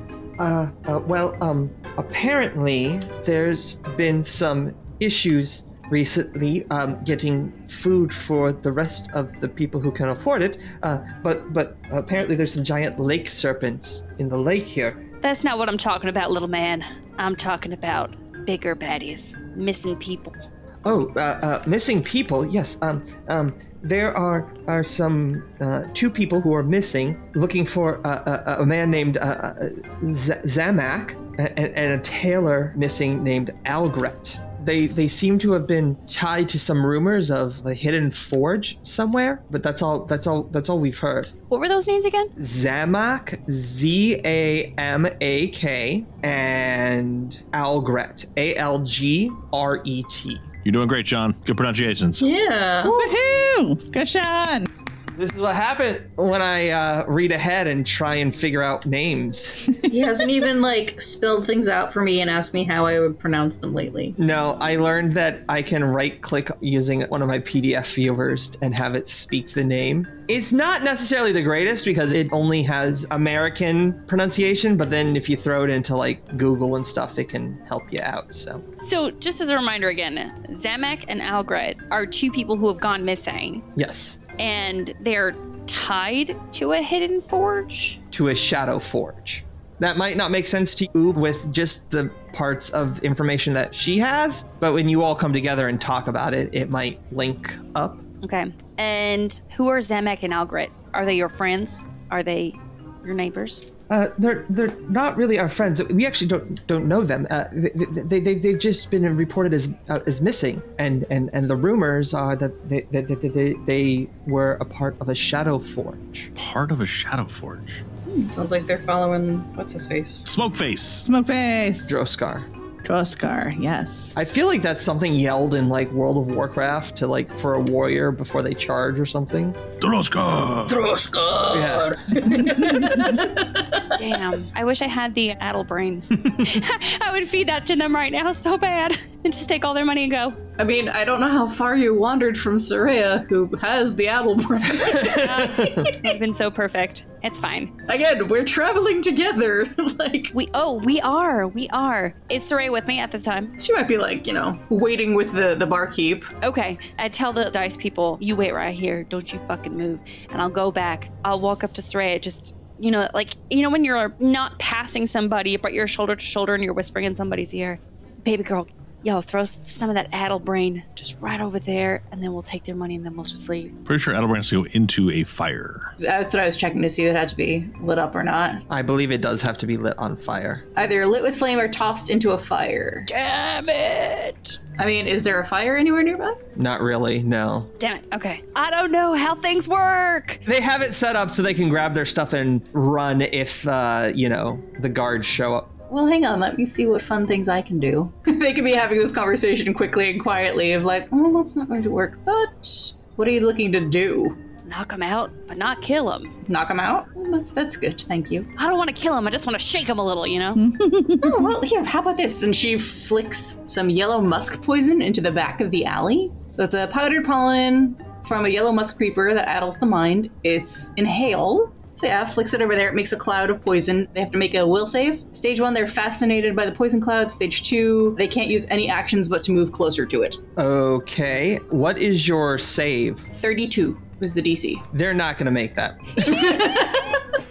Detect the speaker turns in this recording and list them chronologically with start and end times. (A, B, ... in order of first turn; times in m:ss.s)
0:00.4-0:15.0 A
0:15.2-0:20.4 B
0:20.8-0:41.3 A
0:41.5-0:42.3 B
0:42.4-0:50.5 A
0:50.6-0:52.3 C
0:52.2-0:53.0 D
0:52.8-0:54.7 E
0:55.2-0:59.7 A
0:59.8-1:04.1 D
1:04.2-1:18.6 A
1:18.8-1:23.6 B
1:23.8-1:24.2 A
1:24.4-1:28.0 B
1:28.1-1:38.0 A
1:38.2-1:43.7 B
1:43.9-1:56.3 A
1:56.4-1:57.8 C
1:58.0-2:00.3 D
2:00.2-2:01.0 C
2:01.0-2:02.0 E
2:01.9-2:02.5 A
2:02.8-2:04.1 E
2:04.1-2:09.6 A
2:09.8-2:10.8 C
2:10.7-2:13.9 D
2:11.5-2:12.0 A
2:13.9-2:20.4 B
2:20.6-2:26.1 D
2:25.0-2:27.7 B
2:25.0-2:25.9 A
2:27.9-2:30.3 D
2:30.3-2:33.5 B
2:33.6-2:36.3 D
2:36.4-2:53.7 B
2:53.9-2:55.9 C
2:56.0-2:58.6 D
2:58.7-3:00.7 A
3:00.8-3:03.1 D
3:03.0-3:04.6 B
3:04.8-3:06.4 D
3:06.6-3:07.7 A
3:07.8-3:10.4 B
3:10.4-3:15.7 A
3:15.9-3:24.4 D
3:24.6-3:26.3 B
3:26.4-3:28.5 D
3:28.6-3:30.6 B
3:30.6-3:31.5 E
3:31.2-3:50.4 D
3:50.6-3:53.3 A
3:53.3-3:54.8 D
3:54.9-3:56.8 A
3:56.2-3:57.2 D